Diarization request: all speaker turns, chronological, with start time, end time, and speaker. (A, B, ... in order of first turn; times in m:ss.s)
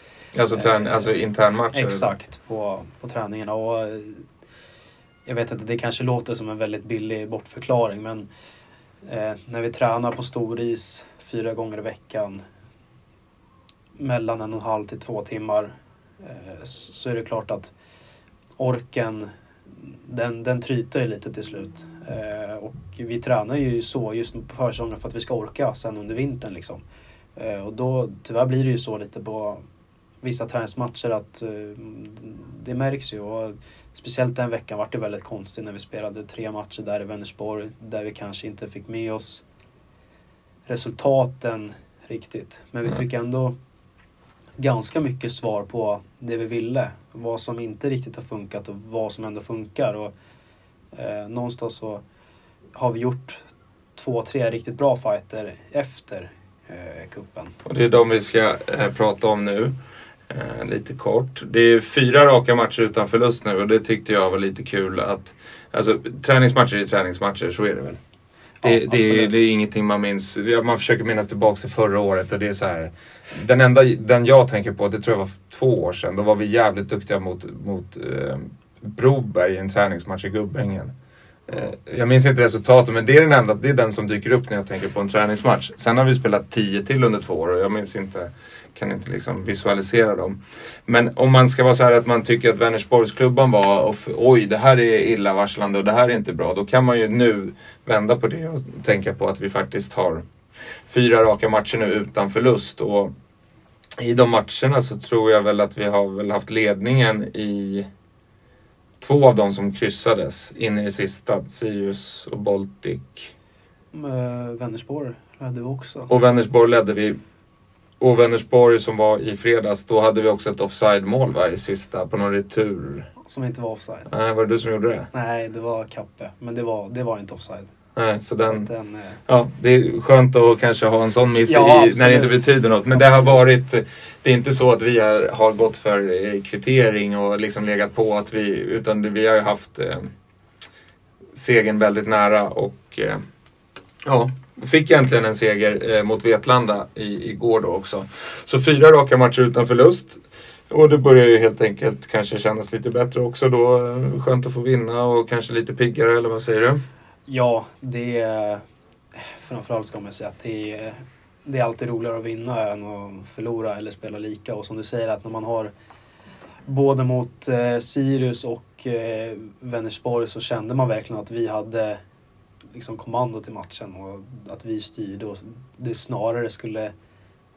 0:00.3-0:02.1 A
0:00.5-0:01.1 B
0:01.7-0:04.2 B
0:05.2-0:08.3 B
0:09.0-0:12.4 B
0:14.0-0:17.7 B
0:18.6-0:19.3 B
0:19.8-0:26.8 B
0:27.4-0:29.6 B
0:30.2-0:39.4 B
0:40.7-0:43.6 B
0:44.6-0:50.1 B
0:50.9-0:52.0 B
0:52.8-0:53.4 B
0:54.0-0:57.6 B
0:57.7-0:59.7 A
1:00.3-1:08.0 A
1:08.6-1:09.4 B
1:08.6-1:20.9 A
1:21.5-1:40.2 A
1:40.9-1:43.1 A
1:44.0-1:47.9 A
1:49.0-1:53.3 A
1:53.9-1:56.1 B
1:56.1-1:57.2 A
1:58.0-2:03.1 A
2:03.2-2:04.1 B
2:04.1-2:05.1 A
2:05.1-2:07.7 B
2:08.0-2:08.7 A
2:08.4-2:09.2 B
2:09.3-2:20.0 A
2:11.5-2:13.4 B
2:21.3-2:23.2 A
2:24.1-2:36.8 A
2:37.3-2:38.6 B
2:39.2-2:45.7 B
2:46.7-2:52.0 B
2:52.7-2:56.9 B